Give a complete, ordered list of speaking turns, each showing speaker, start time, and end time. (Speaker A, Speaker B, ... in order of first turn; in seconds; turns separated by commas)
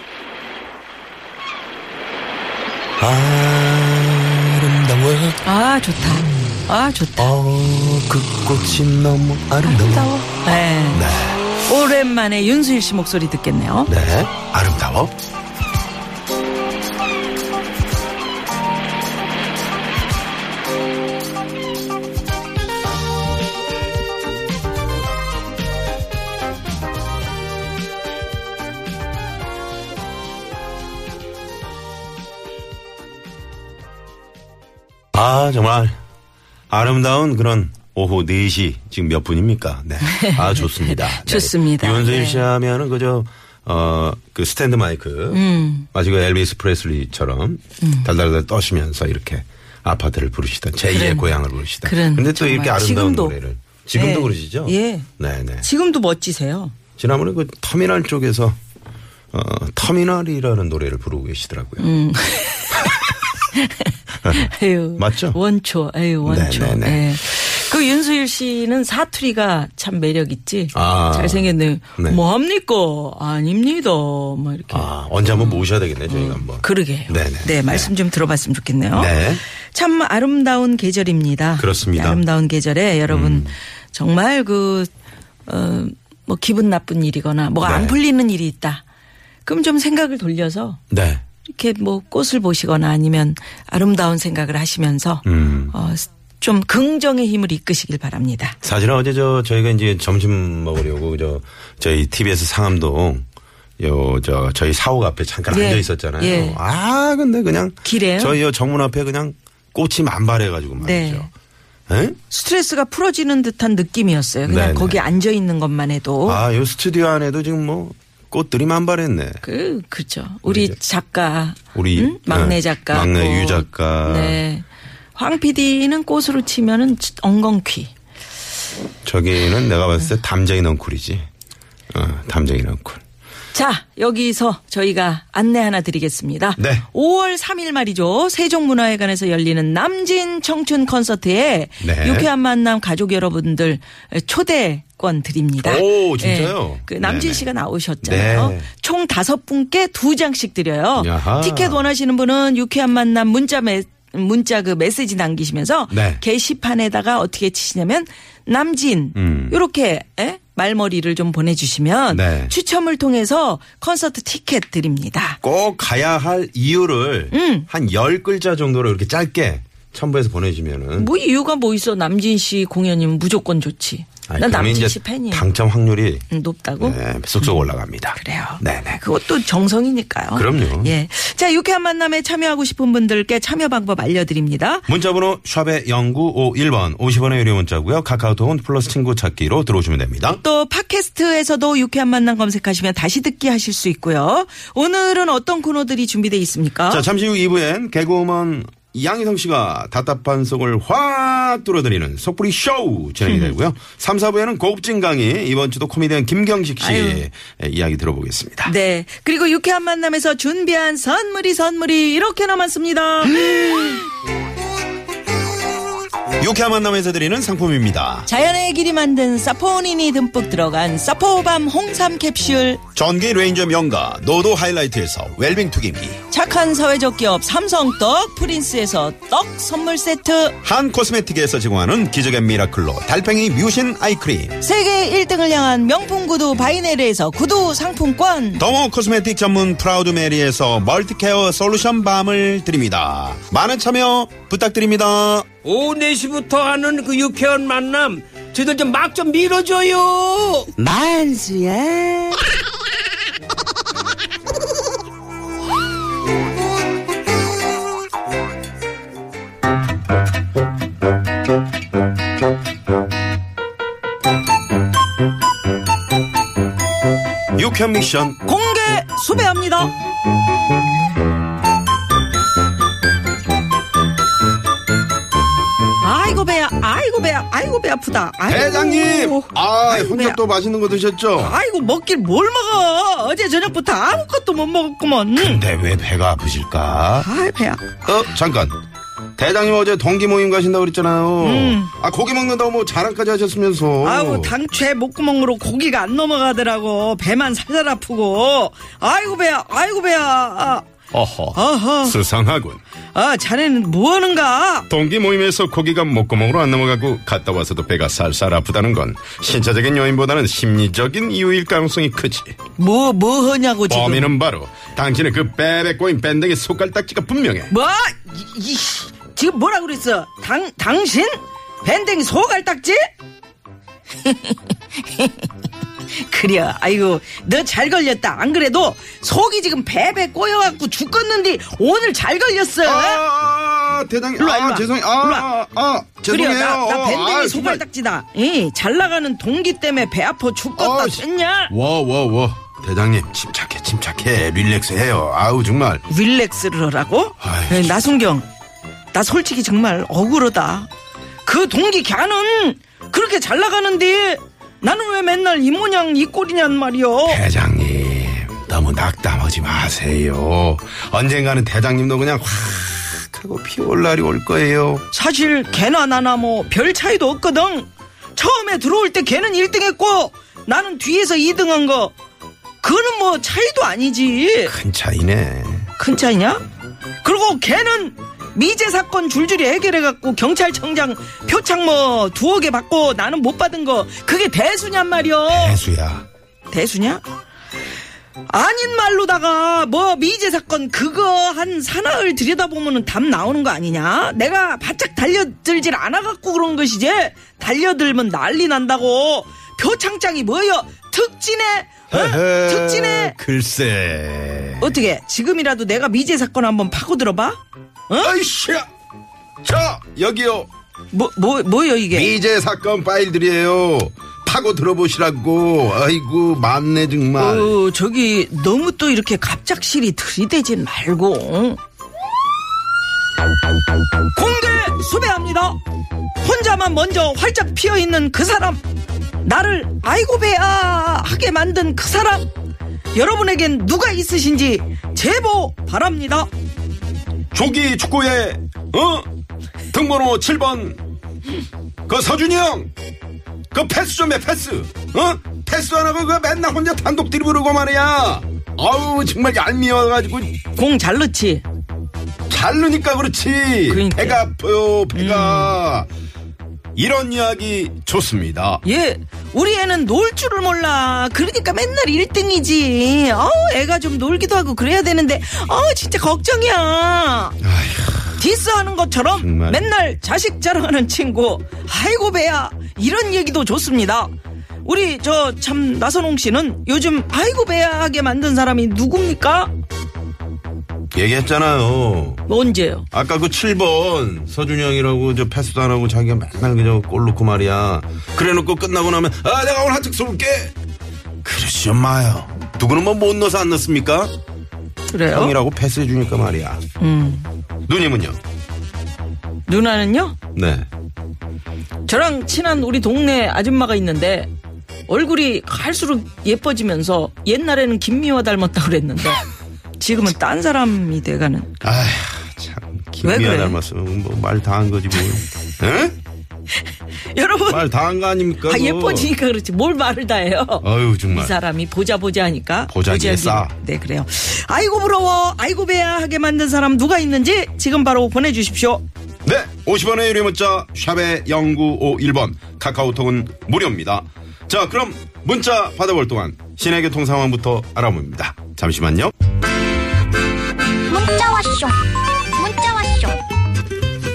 Speaker A: 3.0-5.4, Speaker B: 5.4-7.3, Speaker A: 7.2-10.1, Speaker B: 9.6-11.1, Speaker A: 10.9-11.4, Speaker B: 11.6-13.9, Speaker A: 13.9-15.1, Speaker A: 35.1-36.0, Speaker A: 36.7-55.7, Speaker B: 40.0-42.5, Speaker B: 45.3-45.9, Speaker B: 47.8-48.1, Speaker B: 50.9-53.4, Speaker B: 53.9-55.1, Speaker B: 55.6-56.8, Speaker A: 57.0-58.6, Speaker A: 59.3-61.9, Speaker B: 61.8-84.9, Speaker A: 64.2-65.4, Speaker A: 66.2-67.1, Speaker A: 70.7-72.2, Speaker A: 74.7-77.9, Speaker A: 78.9-79.4, Speaker A: 81.6-82.2, Speaker A: 83.1-83.5, Speaker B: 85.5-88.8, Speaker A: 87.6-88.0, Speaker B: 89.5-90.8, Speaker A: 90.9-91.2, Speaker B: 91.5-98.6, Speaker A: 95.2-95.7, Speaker A: 98.6-103.2, Speaker A: 103.8-111.3, Speaker B: 105.5-106.6, Speaker B: 107.8-108.4, Speaker B: 110.8-111.3, Speaker A: 111.9-112.2, Speaker B: 112.3-116.4, Speaker A: 114.5-115.1, Speaker A: 116.2-119.4, Speaker B: 119.4-127.9, Speaker A: 120.5-120.8, Speaker A: 121.7-124.4, Speaker A: 129.1-131.3, Speaker A: 131.9-133.0, Speaker B: 133.5-165.4, Speaker A: 136.6-136.9, Speaker A: 141.8-142.3, Speaker A: 145.6-147.5, Speaker A: 148.0-148.7, Speaker A: 151.0-151.9, Speaker A: 155.9-156.2, Speaker A: 159.2-159.6, Speaker A: 162.1-162.5, Speaker A: 165.4-171.1, Speaker B: 167.3-167.7, Speaker B: 171.0-175.5, Speaker A: 174.3-176.2, Speaker B: 176.3-177.6, Speaker A: 176.8-179.0, Speaker B: 178.2-184.9, Speaker A: 180.3-180.9, Speaker A: 184.9-190.4, Speaker B: 190.3-197.0, Speaker A: 196.9-208.7, Speaker B: 203.2-203.6, Speaker B: 206.8-207.2, Speaker B: 208.7-213.5, Speaker A: 213.4-213.8, Speaker A: 216.4-218.3, Speaker B: 218.3-222.8, Speaker A: 222.9-226.2, Speaker B: 226.3-230.6, Speaker A: 230.6-234.6, Speaker B: 234.6-238.6, Speaker A: 238.6-245.5, Speaker C: 245.6-252.3, Speaker A: 267.6-268.4, Speaker B: 268.4-269.9, Speaker B: 276.0-280.4, Speaker A: 278.5-281.6, Speaker B: 281.4-285.6, Speaker A: 285.4-287.3, Speaker B: 287.2-288.0, Speaker A: 288.0-288.8, Speaker A: 289.4-294.6, Speaker B: 291.4-291.9, Speaker B: 294.0-300.9, Speaker A: 301.1-302.8, Speaker B: 301.6-302.2, Speaker B: 303.1-304.9, Speaker A: 304.9-312.6, Speaker B: 312.8-314.3, Speaker A: 313.9-317.7, Speaker B: 317.7-323.1, Speaker B: 324.2-325.5, Speaker B: 326.1-333.2, Speaker A: 332.8-337.8, Speaker B: 334.4-335.5, Speaker B: 336.3-341.7, Speaker A: 340.8-346.0, Speaker B: 346.1-348.5, Speaker A: 347.4-348.1, Speaker B: 349.1-350.9, Speaker B: 351.4-357.4, Speaker A: 357.2-365.1, Speaker B: 365.1-372.1, Speaker B: 372.8-374.7, Speaker A: 374.6-375.9, Speaker B: 376.0-376.6, Speaker B: 377.2-385.8, Speaker A: 385.5-386.3, Speaker B: 386.7-387.2, Speaker B: 388.5-403.4, Speaker A: 402.1-404.9, Speaker B: 404.8-407.6, Speaker B: 408.1-408.4, Speaker A: 408.2-408.9, Speaker A: 409.6-410.7, Speaker B: 411.1-412.3, Speaker A: 412.1-417.8, Speaker B: 417.4-421.8, Speaker B: 424.3-425.8, Speaker B: 426.4-428.8, Speaker B: 429.4-432.5, Speaker B: 433.1-436.5, Speaker A: 437.5-439.3, Speaker A: 439.9-441.0, Speaker A: 442.1-442.9, Speaker A: 443.7-450.6, Speaker B: 450.7-451.6, Speaker A: 452.5-456.1, Speaker B: 453.9-454.4, Speaker B: 455.1-455.8, Speaker A: 457.0-458.8, Speaker B: 458.9-467.6, Speaker A: 467.6-468.4, Speaker B: 468.4-474.3, Speaker A: 469.4-469.9, Speaker B: 474.8-479.7, Speaker A: 481.1-482.4, Speaker B: 482.5-483.1, Speaker A: 483.1-490.7, Speaker A: 491.4-494.3, Speaker B: 495.1-495.6, Speaker A: 495.3-496.8, Speaker B: 497.0-497.5, Speaker A: 497.9-498.4, Speaker B: 499.7-500.4, Speaker A: 500.5-500.9, Speaker B: 502.1-504.5, Speaker B: 505.1-509.4, Speaker B: 510.0-511.7, Speaker A: 511.8-516.2, Speaker B: 513.2-513.8, Speaker B: 517.3-517.9, Speaker A: 517.7-519.3, Speaker B: 518.6-529.0, Speaker A: 520.8-521.5, Speaker A: 522.9-523.7, Speaker A: 529.5-539.3, Speaker D: 541.1-543.4